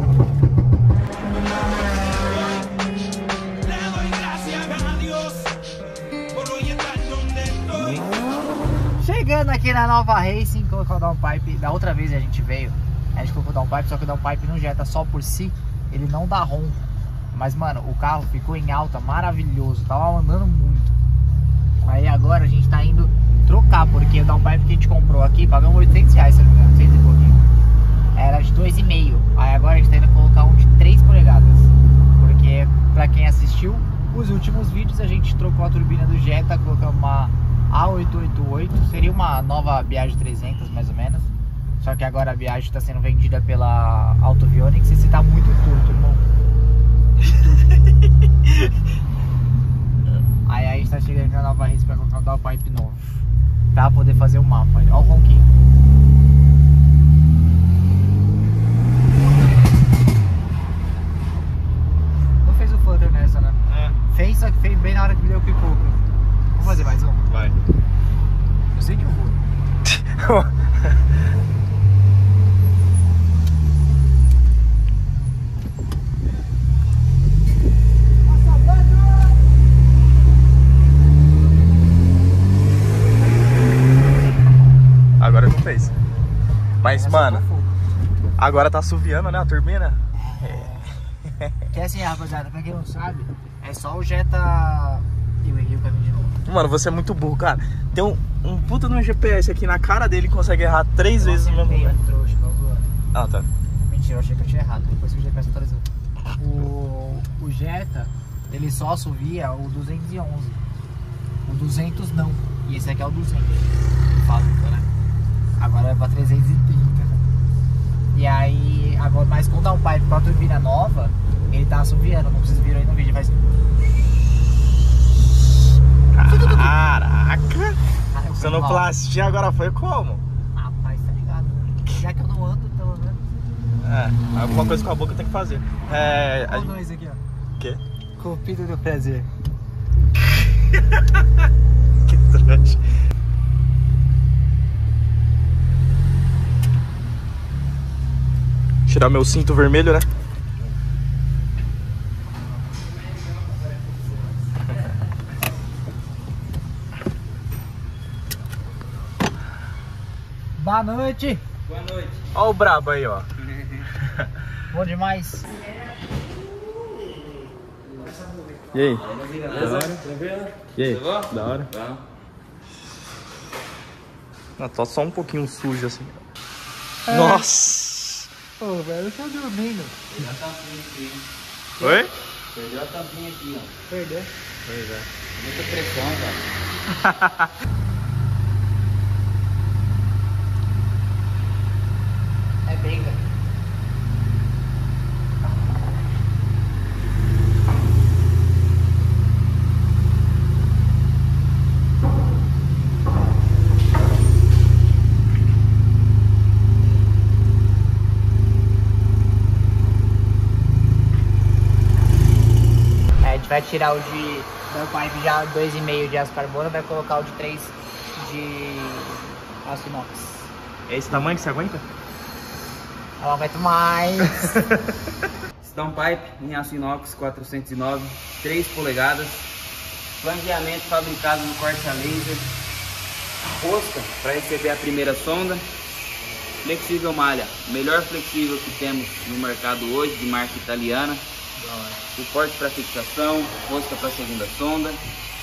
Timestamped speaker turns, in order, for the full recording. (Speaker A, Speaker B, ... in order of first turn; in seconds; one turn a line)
Speaker A: 4.1-4.5
Speaker A: 6.5-7.6
Speaker B: 9.0-20.9
Speaker B: 21.8-27.4
Speaker B: 28.1-46.3
Speaker B: 50.5-53.0
Speaker B: 53.7-55.5
Speaker B: 62.4-66.0
Speaker A: 63.7-64.0
Speaker B: 66.5-67.3
Speaker A: 67.3-67.5
Speaker B: 68.7-69.4
Speaker A: 69.8-71.0
Speaker B: 78.3-79.3
Speaker A: 85.2-85.9
Speaker A: 86.8-87.4
Speaker B: 86.9-87.7
Speaker A: 88.4-91.5
Speaker B: 90.2-91.0
Speaker B: 91.7-96.4
Speaker A: 96.4-102.0
Speaker B: 101.1-103.0
Speaker A: 103.1-103.5
Speaker B: 103.8-110.6
Speaker B: 111.4-114.9
Speaker B: 115.6-117.2
Speaker B: 118.1-123.4
Speaker A: 126.1-127.8
Speaker B: 126.2-126.9
Speaker B: 128.1-128.9
Speaker A: 128.4-130.2
Speaker B: 130.5-133.2
Speaker A: 133.8-136.7
Speaker B: 136.4-137.2
Speaker B: 138.2-139.3
Speaker A: 142.1-142.8
Speaker A: 148.9-150.1
Speaker B: 160.6-161.4
Speaker C: 161.7-162.3
Speaker A: 162.3-163.3
Speaker C: 163.5-163.9
Speaker B: 164.7-165.5
Speaker A: 168.7-170.0
Speaker C: 168.9-172.0
Speaker A: 170.8-171.7
Speaker A: 174.6-176.2
Speaker B: 177.1-177.5
Speaker A: 177.1-178.3
Speaker B: 178.6-180.3
Speaker C: 180.1-181.3
Speaker B: 181.8-182.1
Speaker A: 181.8-182.1
Speaker C: 182.5-183.7
Speaker B: 183.9-184.3
Speaker A: 184.6-185.1
Speaker C: 185.3-186.5
Speaker A: 186.9-187.5
Speaker B: 192.6-193.2
Speaker B: 213.2-220.5
Speaker A: 220.9-221.8
Speaker B: 223.2-224.6
Speaker A: 224.4-224.9
Speaker C: 225.6-229.5
Speaker C: 230.2-232.5
Speaker C: 233.4-235.7
Speaker C: 236.6-241.2
Speaker A: 241.6-242.0
Speaker C: 242.1-245.0